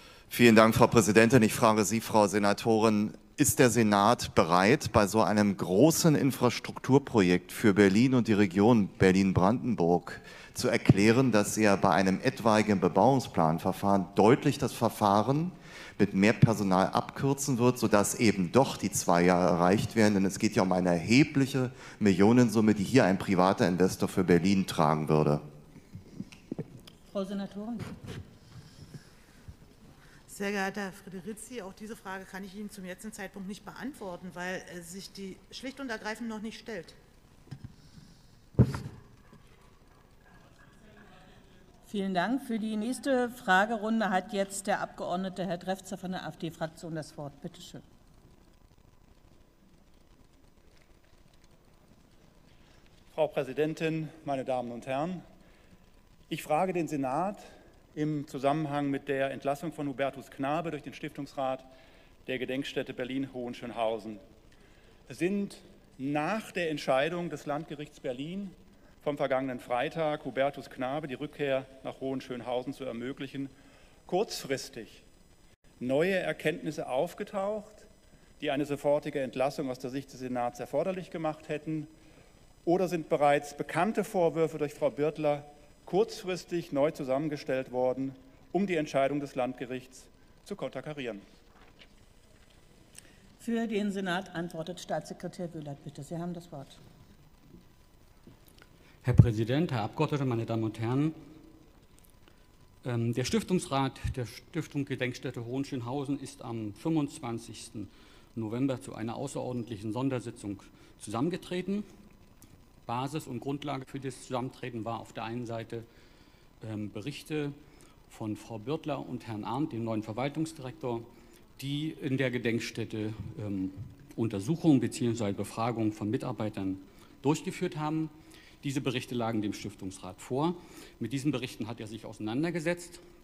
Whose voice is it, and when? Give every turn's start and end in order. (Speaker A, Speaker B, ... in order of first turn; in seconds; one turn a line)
Speaker A: 0.3-25.4
Speaker B: 27.1-27.9
Speaker C: 30.3-37.0
Speaker B: 41.9-47.8
Speaker D: 53.1-55.2
Speaker D: 56.3-61.7
Speaker D: 62.3-64.2
Speaker D: 65.1-73.5
Speaker D: 74.1-75.0
Speaker D: 75.8-77.9
Speaker D: 78.4-81.9
Speaker D: 82.7-91.2
Speaker B: 93.4-96.8
Speaker E: 99.0-101.2
Speaker E: 102.8-111.9
Speaker E: 112.9-115.9
Speaker E: 116.6-117.6
Speaker E: 118.1-133.0